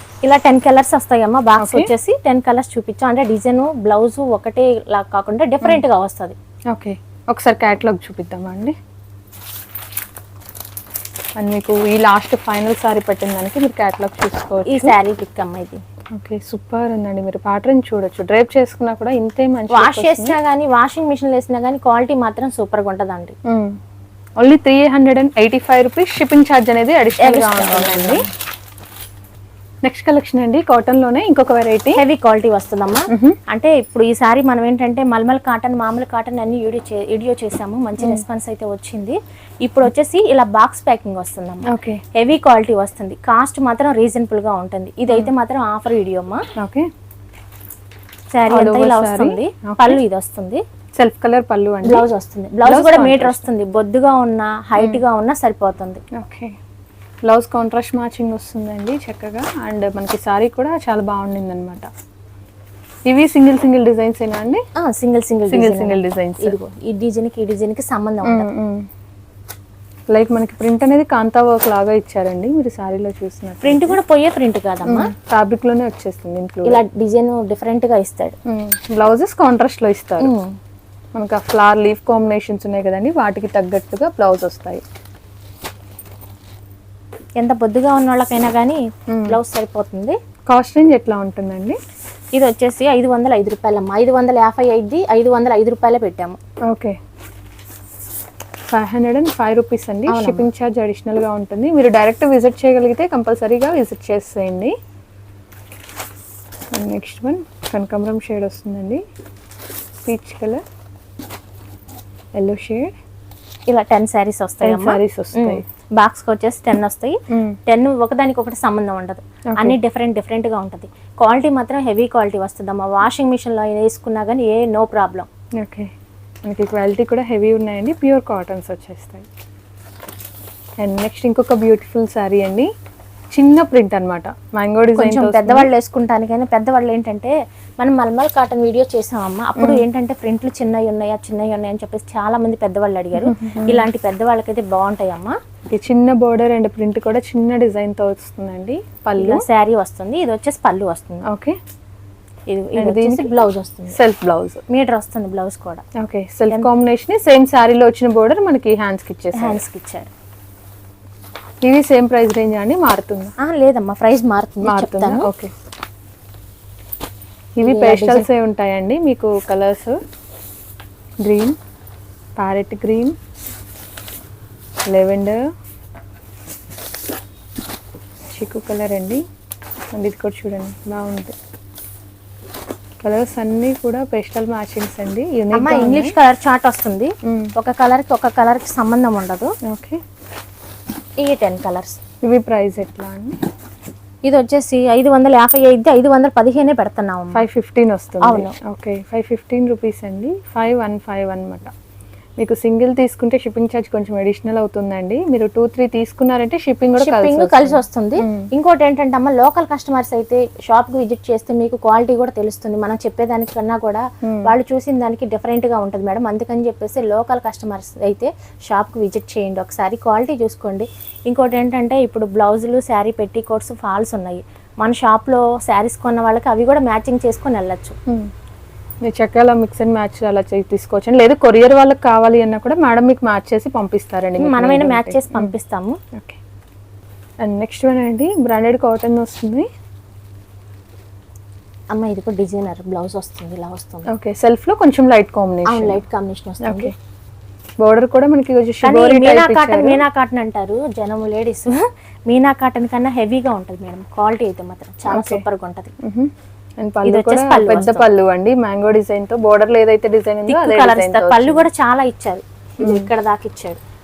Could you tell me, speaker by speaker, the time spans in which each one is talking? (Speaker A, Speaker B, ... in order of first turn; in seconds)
Speaker A: 0.2-6.4, 14.7-15.8, 19.7-23.4, 27.2-28.3, 31.9-46.4, 48.3-50.6, 51.8-56.0, 64.8-68.5, 73.6-75.1, 76.7-78.3, 80.2-80.6, 87.4-90.2, 92.3-96.4, 100.1-100.5, 113.7-125.3, 134.9-145.4, 149.2-151.3, 152.5-154.0, 154.7-155.8, 159.3-160.1, 163.4-165.3, 167.6-168.3, 185.5-189.5, 191.2-192.0, 194.2-197.4, 198.2-198.6, 207.0-228.0, 234.4-236.0, 241.9-244.1, 245.7-246.9, 248.8-255.9, 257.0-258.1, 260.5-263.8
Speaker B: 1.6-1.9, 6.7-8.8, 11.4-14.9, 16.1-20.4, 23.5-23.8, 24.4-28.2, 29.8-32.0, 33.1-33.4, 38.0-38.2, 41.7-42.0, 46.6-46.9, 48.5-50.0, 51.0-52.1, 52.6-53.5, 54.8-55.0, 56.1-56.6, 57.2-61.9, 63.1-64.6, 65.5-66.6, 68.2-68.9, 70.1-74.0, 74.8-76.8, 78.5-80.3, 81.2-84.8, 89.1-89.4, 90.5-91.8, 96.7-97.0, 98.7-104.8, 106.7-109.0, 110.0-110.6, 112.4-112.9, 114.6-115.6, 117.3-117.6, 119.5-119.8, 125.6-125.9, 126.5-129.3, 130.8-132.7, 133.3-135.7, 139.6-139.8, 143.2-143.9, 145.7-149.4, 151.2-151.6, 152.8-154.6, 156.0-159.6, 161.6-163.3, 164.6-165.5, 167.6-170.0, 171.2-171.6, 172.4-173.2, 174.9-175.5, 178.3-179.2, 179.9-181.4, 183.0-186.2, 187.2-187.5, 189.6-190.0, 192.2-193.4, 197.3-201.7, 202.4-208.5, 214.2-214.5, 229.0-235.5, 236.1-236.4, 237.4-239.7, 244.1-246.0, 246.6-246.9, 247.8-250.0, 255.1-255.4, 256.0-261.7, 262.8-263.1